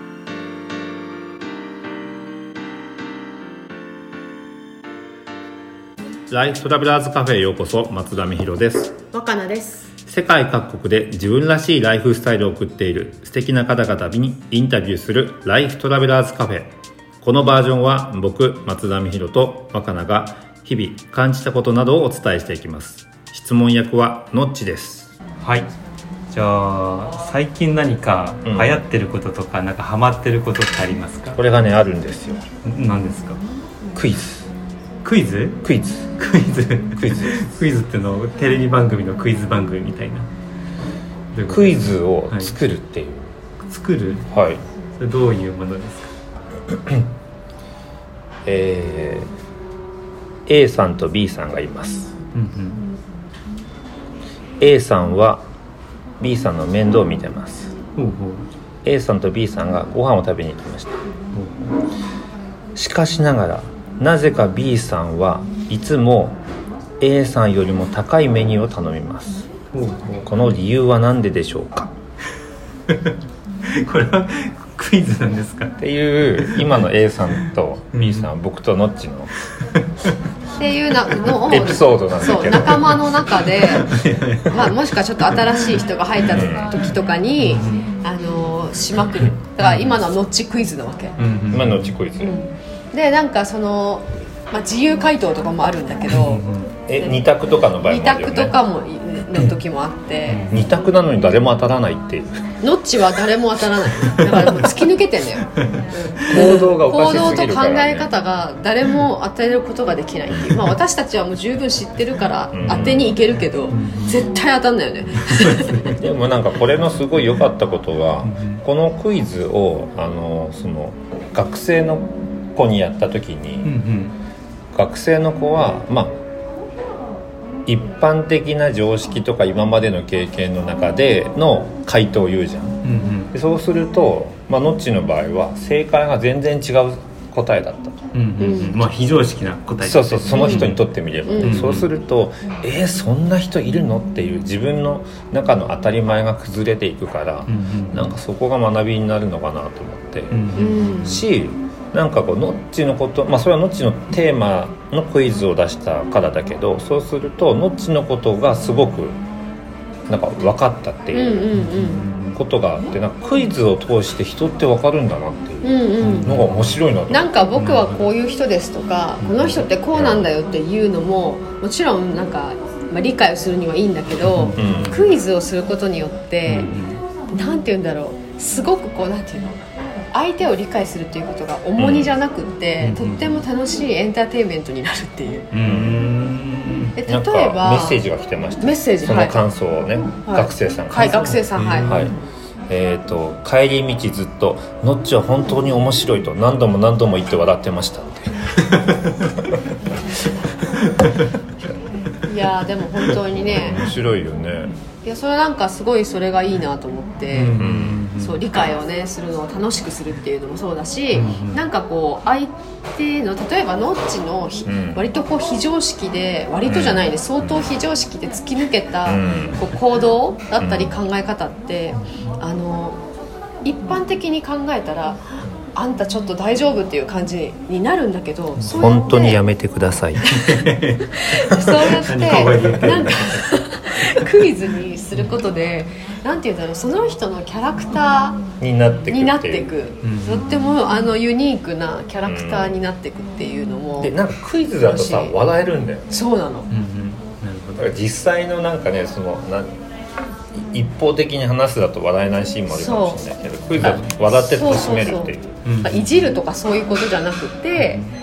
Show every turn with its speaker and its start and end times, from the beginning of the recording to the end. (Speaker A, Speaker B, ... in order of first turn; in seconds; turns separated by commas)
Speaker A: 6.3-8.9, Speaker B: 9.1-9.9, Speaker A: 10.1-16.7, Speaker A: 17.2-25.1, Speaker C: 25.4-25.7, Speaker C: 26.3-31.4, Speaker A: 28.4-28.8, Speaker A: 31.4-32.4, Speaker C: 32.6-33.4, Speaker A: 34.0-34.5, Speaker C: 35.0-35.6, Speaker A: 35.6-36.1, Speaker C: 36.2-40.3, Speaker A: 37.0-37.5, Speaker C: 41.3-41.8, Speaker A: 41.5-43.3, Speaker C: 42.3-42.5, Speaker C: 43.6-44.2, Speaker A: 44.3-44.6, Speaker C: 45.0-46.1, Speaker A: 46.7-47.0, Speaker A: 48.4-49.3, Speaker A: 50.5-52.1, Speaker C: 52.3-52.8, Speaker A: 54.6-55.4, Speaker A: 56.2-57.7, Speaker C: 58.0-58.5, Speaker A: 58.8-61.0, Speaker C: 61.3-61.7, Speaker A: 62.8-66.4, Speaker A: 67.0-69.5, Speaker C: 69.7-70.2, Speaker A: 70.2-71.9, Speaker C: 72.9-73.1, Speaker C: 73.8-75.8, Speaker A: 75.8-79.3, Speaker C: 76.4-76.7, Speaker C: 77.9-78.3, Speaker C: 79.8-80.1, Speaker B: 80.6-91.2, Speaker A: 81.3-83.1, Speaker C: 83.5-84.7, Speaker C: 85.2-85.8, Speaker A: 86.2-86.7, Speaker C: 87.4-87.9, Speaker C: 89.6-90.0, Speaker C: 91.2-91.9, Speaker A: 91.5-92.4, Speaker B: 92.2-96.4, Speaker C: 96.1-96.7, Speaker A: 96.9-98.5, Speaker B: 97.0-97.2, Speaker B: 97.8-100.5, Speaker C: 100.3-100.7, Speaker A: 100.5-102.4, Speaker B: 102.6-115.9, Speaker A: 106.2-108.1, Speaker C: 106.3-106.7, Speaker A: 112.5-113.1, Speaker C: 112.7-113.1, Speaker C: 113.7-114.1, Speaker C: 115.2-116.0, Speaker A: 115.9-123.7, Speaker C: 118.2-118.6, Speaker C: 123.6-124.1, Speaker A: 124.7-126.2, Speaker A: 127.7-132.8, Speaker C: 132.8-133.3, Speaker A: 133.3-138.0, Speaker C: 138.1-140.8, Speaker B: 138.4-138.8, Speaker A: 139.8-150.5, Speaker B: 140.3-141.7, Speaker C: 141.4-141.9, Speaker C: 147.5-148.2, Speaker C: 150.3-151.2, Speaker B: 150.6-151.2, Speaker A: 151.0-159.2, Speaker A: 160.1-161.5, Speaker B: 161.1-162.0, Speaker C: 161.5-162.4, Speaker A: 162.3-167.3, Speaker B: 165.6-166.4, Speaker C: 166.0-166.5, Speaker B: 167.1-176.7, Speaker C: 167.6-168.0, Speaker C: 169.2-169.6, Speaker A: 169.9-170.3, Speaker C: 174.2-175.0, Speaker A: 174.6-175.0, Speaker C: 176.4-177.0, Speaker B: 177.3-179.6, Speaker B: 180.1-185.5, Speaker A: 181.8-182.1, Speaker C: 182.8-183.4, Speaker C: 185.5-187.0, Speaker A: 185.6-186.0, Speaker B: 187.0-188.0, Speaker A: 187.1-192.1, Speaker B: 188.6-189.4, Speaker B: 190.2-191.9, Speaker C: 191.1-192.1, Speaker A: 192.7-198.4, Speaker C: 198.7-199.1, Speaker C: 200.8-201.2, Speaker B: 202.2-203.8, Speaker A: 203.5-204.7, Speaker B: 205.0-207.6, Speaker C: 207.3-208.4, Speaker A: 207.6-208.0, Speaker B: 208.2-223.0, Speaker C: 211.1-211.6, Speaker A: 214.7-215.0, Speaker A: 216.7-217.6, Speaker A: 219.0-219.7, Speaker A: 220.6-220.9, Speaker B: 223.6-229.4, Speaker A: 228.7-230.3, Speaker B: 230.2-238.4, Speaker C: 230.3-233.4, Speaker A: 238.6-239.7, Speaker B: 239.1-244.1, Speaker C: 240.0-240.7, Speaker A: 242.2-242.8, Speaker A: 244.0-246.1, Speaker B: 244.8-245.3, Speaker B: 246.1-246.7, Speaker C: 246.7-247.9, Speaker A: 247.8-249.8, Speaker A: 250.6-255.6, Speaker B: 252.7-253.2, Speaker C: 253.8-254.1, Speaker B: 254.4-258.0, Speaker C: 255.6-256.1, Speaker C: 257.8-258.1